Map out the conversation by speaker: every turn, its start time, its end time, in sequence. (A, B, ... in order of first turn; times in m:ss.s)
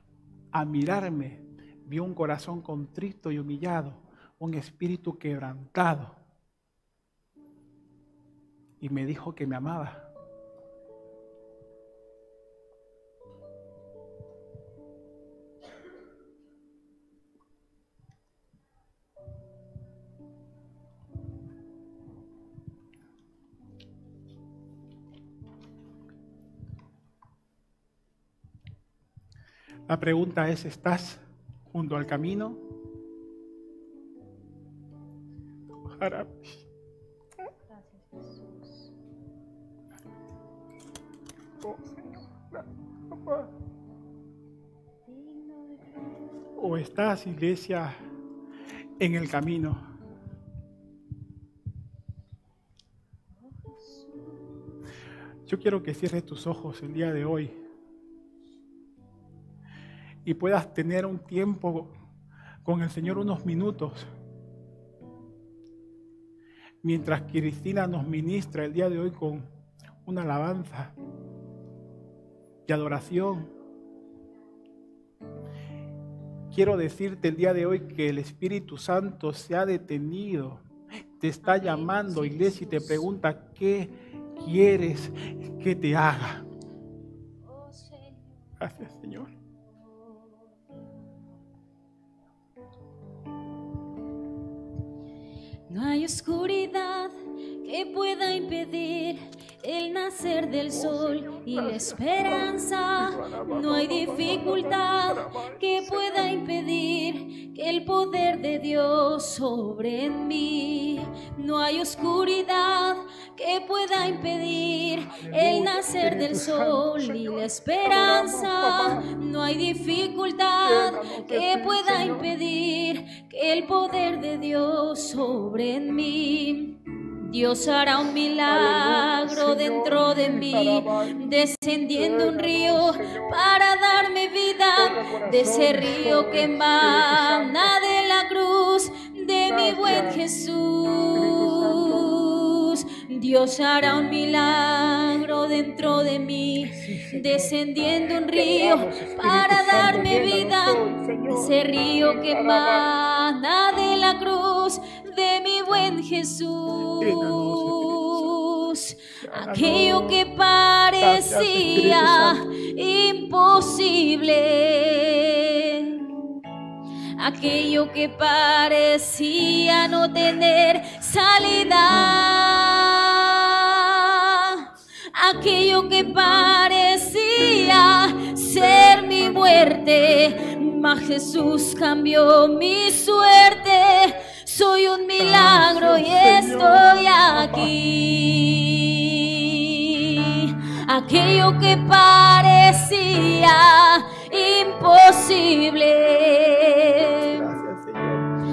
0:00.5-0:06.2 A
0:08.8-0:10.1 A
0:29.9-0:32.6 A
0:36.0-0:36.6 A
0:37.7-0:38.9 B
0:41.6-0:41.9 A
0:45.1-0:46.2 B
0:46.6-0:47.9 A
0:49.0-0:49.8 A
0:53.4-0:54.5 B
0:55.4-0:57.5 A
1:00.2-1:01.9 A
1:02.6-1:04.1 A
1:06.8-1:09.5 A
1:10.0-1:10.9 A
1:12.6-1:13.5 A
1:16.5-1:20.6 A
1:21.2-1:26.4 A
1:21.4-1:23.1 B
1:27.4-1:28.6 B
1:28.6-1:29.3 A
1:29.9-1:30.4 B
1:35.7-2:46.1 B
2:26.8-2:27.2 A
2:28.8-2:31.4 A
2:37.0-2:38.4 A
2:39.3-2:40.0 A
2:41.0-2:42.4 A
2:47.2-3:17.4 B
3:17.3-3:18.2 A